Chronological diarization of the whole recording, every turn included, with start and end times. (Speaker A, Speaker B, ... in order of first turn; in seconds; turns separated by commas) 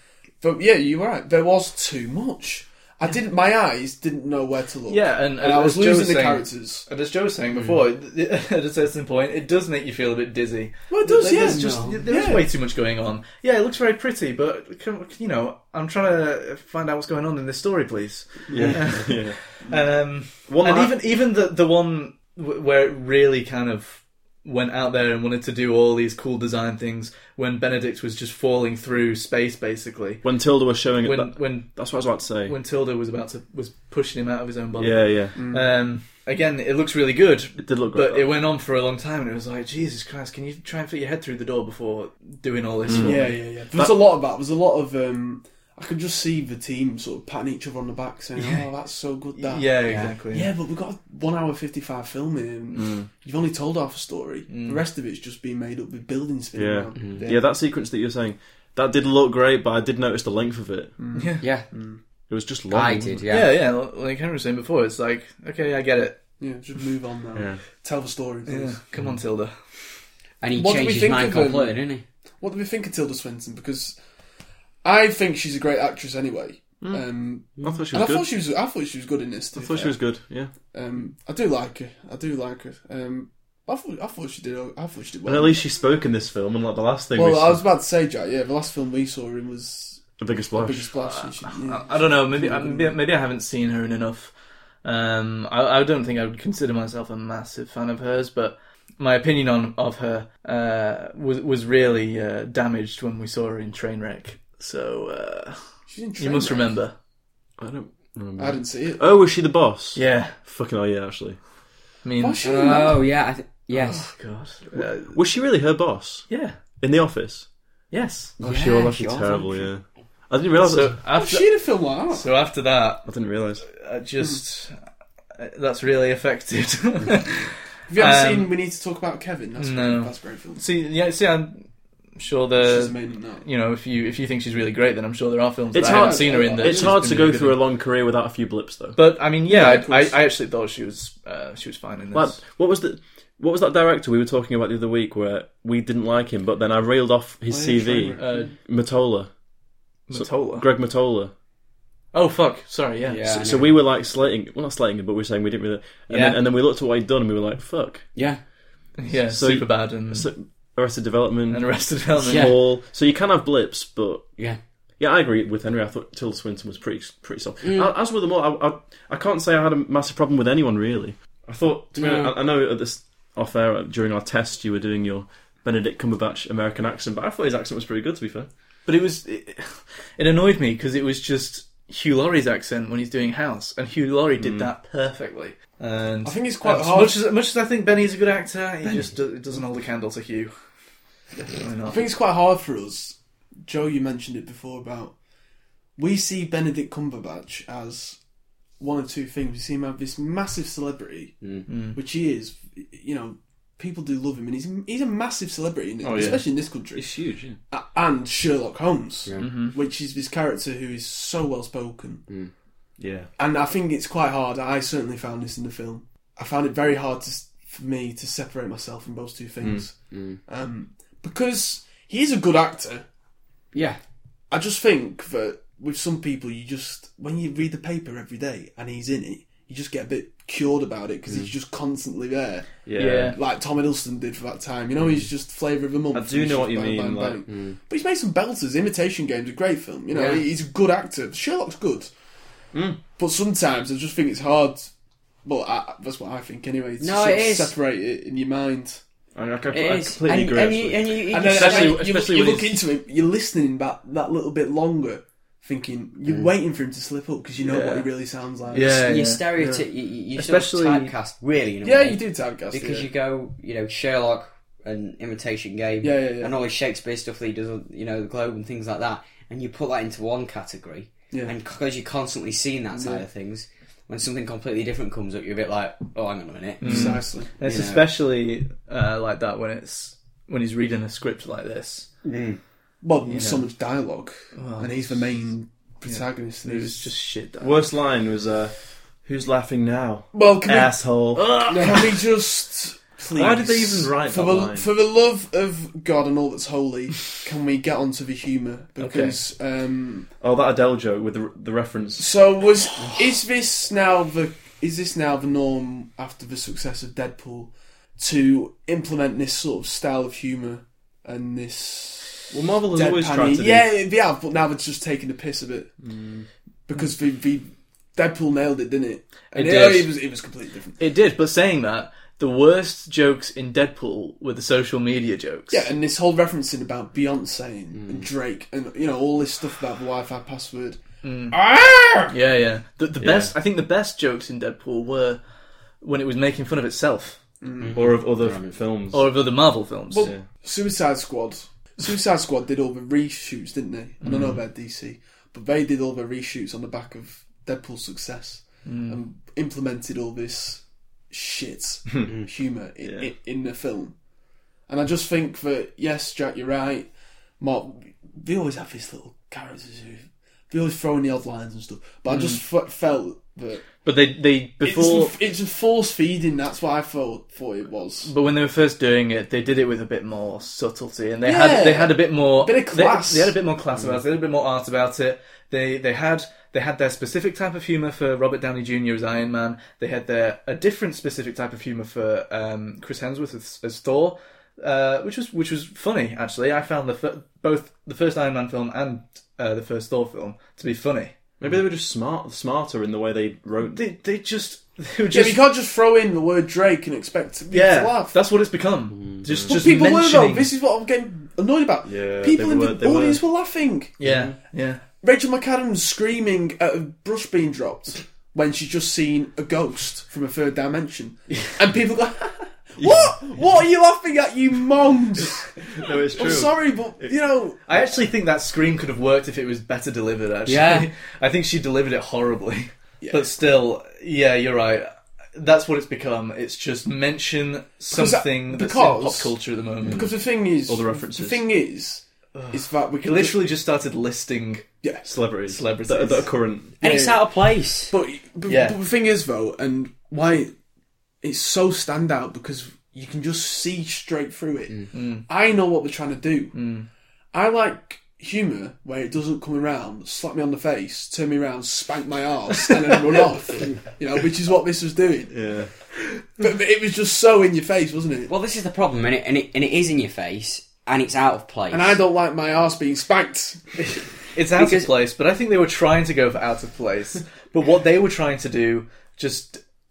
Speaker A: 0.4-6.9, Speaker B: 4.9-30.2, Speaker A: 10.9-12.5, Speaker C: 11.3-12.0, Speaker D: 18.5-19.4, Speaker D: 20.5-20.9, Speaker D: 30.2-32.5, Speaker B: 31.0-31.8, Speaker B: 32.5-43.9, Speaker D: 34.8-35.4, Speaker A: 35.4-35.7, Speaker D: 37.6-38.3, Speaker D: 42.9-43.2, Speaker A: 43.0-57.4, Speaker B: 48.4-48.7, Speaker B: 49.4-50.5, Speaker C: 49.8-50.1, Speaker D: 52.7-53.1, Speaker B: 54.5-54.8, Speaker D: 56.5-61.0, Speaker C: 57.0-57.2, Speaker A: 61.0-62.0, Speaker B: 61.1-61.5, Speaker C: 61.4-61.7, Speaker D: 62.3-63.3, Speaker C: 62.7-63.6, Speaker B: 63.3-66.2, Speaker A: 66.4-68.8, Speaker D: 67.3-67.6, Speaker B: 68.5-69.5, Speaker C: 70.4-72.0, Speaker A: 70.5-71.9, Speaker A: 72.4-74.0, Speaker A: 74.8-80.0, Speaker D: 77.6-78.3, Speaker D: 79.6-80.5, Speaker A: 80.7-85.6, Speaker D: 85.3-87.6, Speaker A: 87.1-93.0, Speaker D: 90.2-90.9, Speaker B: 91.0-94.3, Speaker B: 94.8-106.9, Speaker A: 105.9-106.8, Speaker D: 107.6-111.4, Speaker A: 108.4-109.0, Speaker B: 110.0-110.4, Speaker B: 112.0-112.4, Speaker A: 112.2-113.1, Speaker C: 112.4-114.1, Speaker B: 113.7-115.2, Speaker D: 114.7-117.5, Speaker B: 116.3-116.6, Speaker B: 117.9-118.3, Speaker C: 118.4-119.7, Speaker D: 118.4-121.0, Speaker B: 120.6-124.8, Speaker A: 121.1-122.3, Speaker D: 123.1-123.7, Speaker B: 125.4-128.5, Speaker A: 127.9-130.6, Speaker B: 129.6-137.6, Speaker A: 132.6-133.4, Speaker D: 135.7-139.0, Speaker A: 135.8-137.2, Speaker B: 138.9-142.4, Speaker A: 139.5-140.2, Speaker D: 142.1-149.3, Speaker A: 147.5-148.6, Speaker B: 148.2-148.5, Speaker B: 150.1-150.7, Speaker D: 150.1-151.3, Speaker B: 152.1-153.2, Speaker C: 153.0-153.8, Speaker D: 153.3-158.1, Speaker C: 156.1-156.4, Speaker C: 158.2-158.4, Speaker B: 159.0-160.3, Speaker D: 159.3-164.3, Speaker B: 161.5-162.5, Speaker C: 162.2-162.6, Speaker D: 165.0-178.5, Speaker C: 167.6-167.9, Speaker C: 171.9-172.3, Speaker B: 178.9-190.5, Speaker D: 184.4-184.7, Speaker A: 186.2-187.2, Speaker B: 191.5-192.0, Speaker A: 191.9-195.2, Speaker A: 196.0-198.2, Speaker A: 198.8-201.4, Speaker C: 201.4-201.7, Speaker B: 201.7-202.0, Speaker A: 201.9-207.1, Speaker D: 206.0-207.6, Speaker A: 207.7-212.3, Speaker C: 209.3-209.7, Speaker B: 209.4-209.8, Speaker D: 213.0-213.3, Speaker A: 213.4-223.1, Speaker D: 219.6-219.9, Speaker C: 220.1-220.4, Speaker C: 223.7-224.0, Speaker A: 224.5-242.1, Speaker D: 232.8-233.3, Speaker B: 233.0-233.4, Speaker D: 236.1-237.4, Speaker C: 237.5-237.8, Speaker C: 240.1-240.4, Speaker D: 242.7-243.0, Speaker A: 243.2-244.9, Speaker A: 245.4-249.0, Speaker C: 247.0-247.7, Speaker D: 249.3-251.2, Speaker C: 249.7-252.0, Speaker A: 251.3-259.0, Speaker B: 251.5-252.8, Speaker D: 257.6-258.1, Speaker B: 258.7-259.5, Speaker C: 258.9-278.1, Speaker B: 260.4-261.1, Speaker A: 261.8-263.1, Speaker A: 266.0-266.6, Speaker A: 271.3-271.6, Speaker A: 272.9-273.2, Speaker B: 276.8-282.1, Speaker A: 276.8-277.5, Speaker C: 282.2-282.6, Speaker A: 283.0-287.1, Speaker B: 283.3-283.7, Speaker B: 284.6-285.4, Speaker B: 286.1-287.9, Speaker D: 287.6-292.1, Speaker A: 290.3-291.1, Speaker B: 291.4-291.7, Speaker A: 291.7-300.3, Speaker D: 293.3-294.9, Speaker B: 299.0-299.4, Speaker D: 300.4-302.3, Speaker A: 302.2-315.9, Speaker D: 312.5-313.9, Speaker D: 316.0-316.5, Speaker A: 316.9-321.0, Speaker B: 319.5-320.1, Speaker B: 321.0-325.9, Speaker A: 325.7-332.3, Speaker C: 327.9-328.3, Speaker B: 331.2-331.6, Speaker B: 332.3-335.4, Speaker D: 333.2-333.5, Speaker B: 336.0-337.4, Speaker A: 337.6-338.1, Speaker C: 337.8-338.8, Speaker D: 337.9-339.3, Speaker B: 339.1-340.3, Speaker A: 340.1-354.1, Speaker B: 344.3-344.5, Speaker B: 348.9-349.2, Speaker D: 353.0-353.3, Speaker A: 354.9-363.9, Speaker B: 362.3-362.6, Speaker B: 364.1-365.4, Speaker A: 364.8-368.3, Speaker B: 368.2-391.3, Speaker A: 371.4-373.6, Speaker D: 391.6-394.0, Speaker B: 393.9-395.6, Speaker A: 395.3-398.4, Speaker B: 397.7-400.7, Speaker C: 399.1-399.4, Speaker D: 399.4-399.7, Speaker A: 399.7-404.1, Speaker D: 402.0-403.4, Speaker B: 404.2-405.0, Speaker D: 404.2-404.6, Speaker A: 405.2-415.8, Speaker D: 413.0-413.3, Speaker D: 416.0-417.3, Speaker A: 416.4-417.8, Speaker B: 417.9-430.2, Speaker C: 420.7-421.1, Speaker A: 423.2-423.5, Speaker A: 428.1-433.6, Speaker D: 430.9-431.6, Speaker B: 432.5-434.9, Speaker A: 435.0-435.3, Speaker D: 435.3-436.9, Speaker B: 435.7-437.4, Speaker C: 437.0-438.1, Speaker A: 438.1-440.7, Speaker B: 438.7-439.0, Speaker A: 441.4-446.8, Speaker B: 445.1-445.5, Speaker B: 446.7-447.1, Speaker A: 447.5-455.7, Speaker D: 455.5-455.9, Speaker A: 456.6-458.5, Speaker C: 458.5-462.2, Speaker A: 461.9-464.2, Speaker B: 464.5-469.8, Speaker C: 464.8-465.1